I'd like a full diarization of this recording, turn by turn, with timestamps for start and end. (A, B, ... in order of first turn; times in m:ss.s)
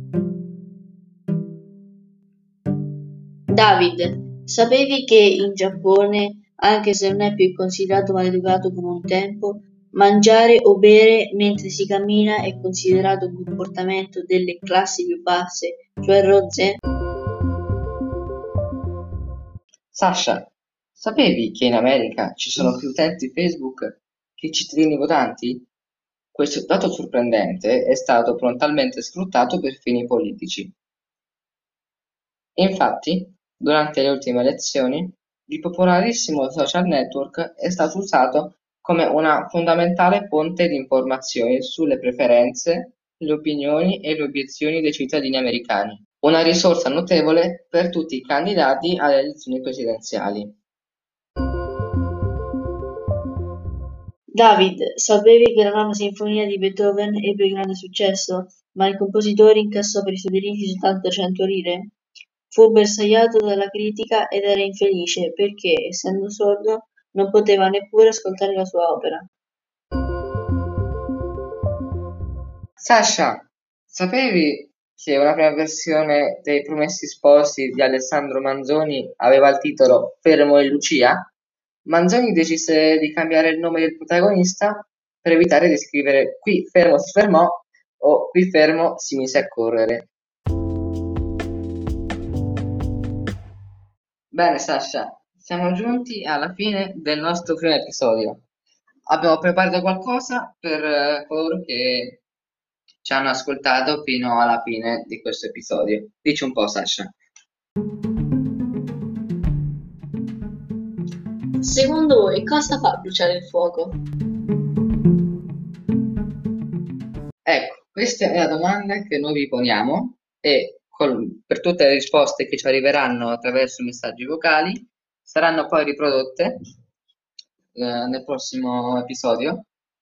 0:03.5-0:16.8 A
0:19.9-0:25.7 B
0:26.3-0:30.7 B
0:32.6-0:50.5 B
0:54.3-1:01.9 A
1:02.5-1:09.3 A
1:12.8-1:21.3 B
1:21.8-1:30.1 B
1:34.3-1:38.4 B
1:39.1-1:42.2 B
1:43.0-1:47.1 B
1:51.6-1:54.0 A
1:57.4-2:06.5 B
2:07.7-2:09.7 B